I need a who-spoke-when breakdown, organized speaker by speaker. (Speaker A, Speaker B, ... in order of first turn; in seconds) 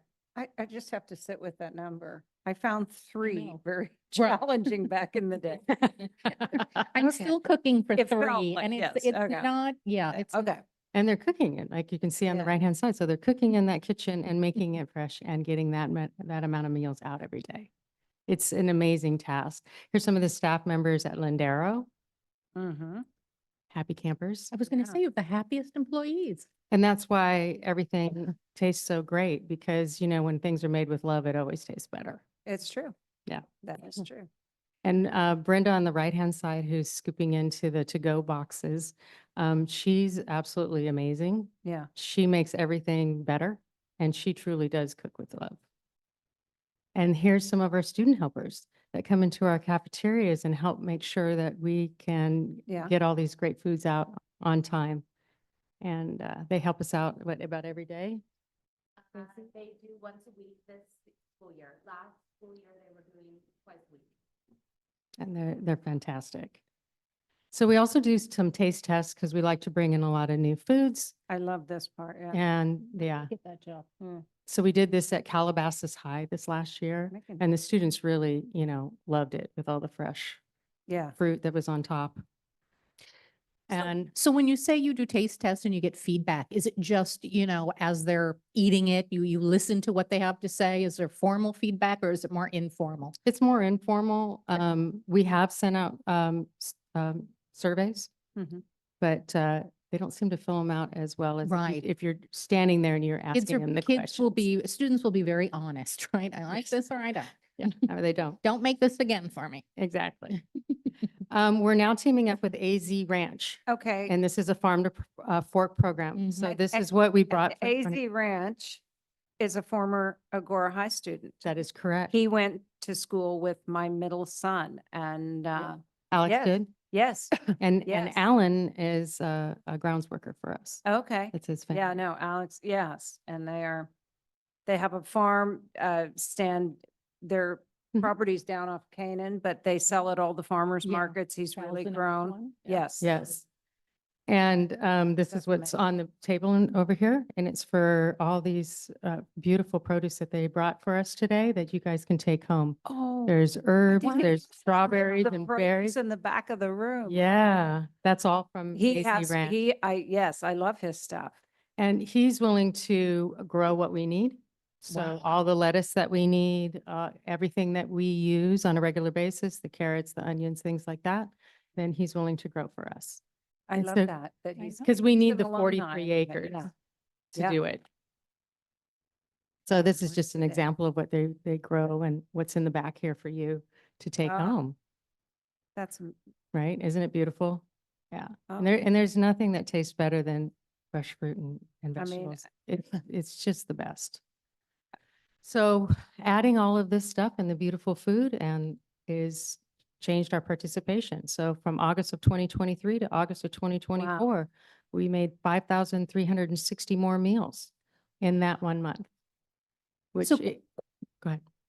Speaker A: 0.3-5.8, 7.0-7.3, 8.0-9.5, 10.1-10.6, 12.3-12.6, 22.6-23.0, 24.7-25.0, 32.5-32.9, 33.6-34.3, 52.7-52.9, 71.3-72.4, 74.0-74.2, 77.1-77.4, 80.9-81.2, 98.3-98.6, 113.7-114.1, 116.5-118.8, 119.4-121.4, 122.1-128.2, 130.8-133.9, 134.7-143.1, 145.3-145.8, 152.8-153.3, 153.9-157.2, 158.7-161.4, 173.7-176.7, 180.1-180.6, 184.2-184.6, 185.8-186.1, 188.5-188.8, 192.0-192.5, 204.0-204.2
Speaker B: 3.2-3.6, 6.0-10.5, 24.5-26.5, 73.3-73.9, 83.7-93.1, 101.4-101.8, 103.3-107.9, 108.4-109.6, 116.1-116.5, 140.8-142.8, 164.9-165.2, 174.6-174.8, 210.2-210.5
Speaker C: 5.9-6.9, 10.9-17.7, 18.3-21.9, 23.7-24.5, 26.7-32.2, 34.8-45.6, 46.9-55.0, 55.8-58.2, 65.2-66.6, 67.5-71.1, 72.3-73.3, 74.5-80.4, 81.2-82.2, 83.7-84.1, 93.2-98.1, 99.0-104.4, 107.6-108.4, 109.8-110.4, 111.3-118.0, 121.4-122.1, 126.1-126.7, 127.6-132.0, 143.0-143.4, 144.3-155.9, 157.1-159.6, 161.8-173.2, 173.7-174.1, 174.8-176.7, 177.3-177.8, 179.7-184.7, 186.5-194.2, 195.4-207.7, 208.2-209.1, 210.1-210.6
Speaker D: 59.1-64.1